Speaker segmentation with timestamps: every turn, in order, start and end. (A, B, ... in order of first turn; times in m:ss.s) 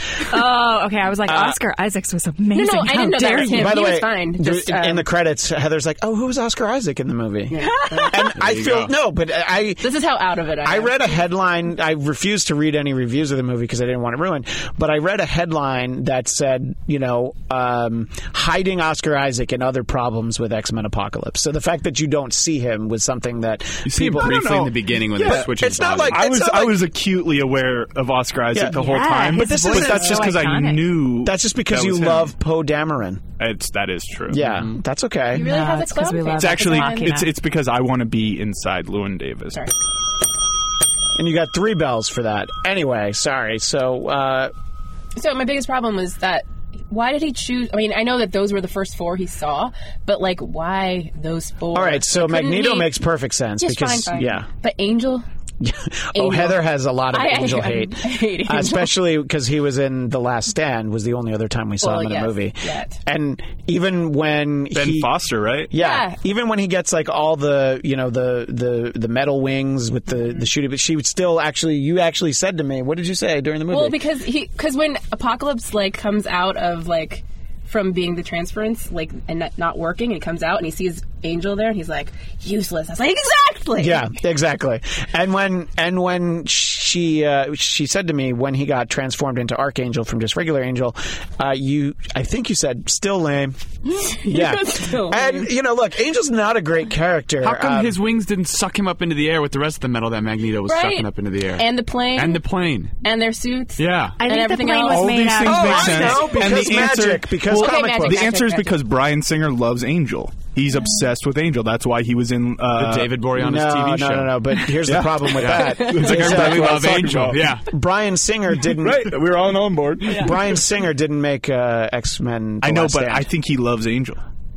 0:00.3-0:03.8 A
0:01.3-0:01.6 B
0:02.5-0:05.1 C
0:03.2-0:10.0 B
0:07.5-0:08.2 C
0:07.8-0:08.1 A
0:08.4-0:08.9 D
0:09.8-0:11.1 C
0:10.6-0:24.4 B
0:23.8-0:26.2 D
0:24.1-0:25.5 E
0:25.2-0:26.8 B
0:26.0-0:32.3 E
0:28.5-0:30.3 B
0:28.7-0:30.9 A
0:31.2-0:33.2 B
0:33.4-0:34.5 E
0:34.3-0:35.5 B
0:35.3-0:37.2 C
0:35.3-0:37.3 A
0:36.4-0:39.6 E
0:41.2-0:44.5 B
0:45.2-0:52.9 C
0:51.7-0:54.5 B
0:53.6-0:55.2 C
0:55.6-1:05.1 B
0:56.1-0:58.9 C
1:01.8-1:02.9 C
1:04.7-1:05.7 E
1:05.7-1:14.0 B
1:05.7-1:06.2 C
1:13.7-1:24.1 C
1:23.8-1:33.6 B
1:34.0-1:35.5 C
1:34.1-1:38.0 B
1:37.4-1:43.0 D
1:40.7-1:42.4 C
1:43.0-1:45.2 C
1:43.8-1:44.2 D
1:44.2-1:46.2 A
1:44.8-1:53.1 E
1:45.4-1:48.4 B
1:47.5-1:48.8 C
1:52.7-1:54.6 D
1:53.4-1:59.1 B
1:54.8-1:57.5 E
1:55.3-1:57.6 D
1:58.7-2:00.6 E
2:00.1-2:03.3 B
2:02.6-2:04.2 E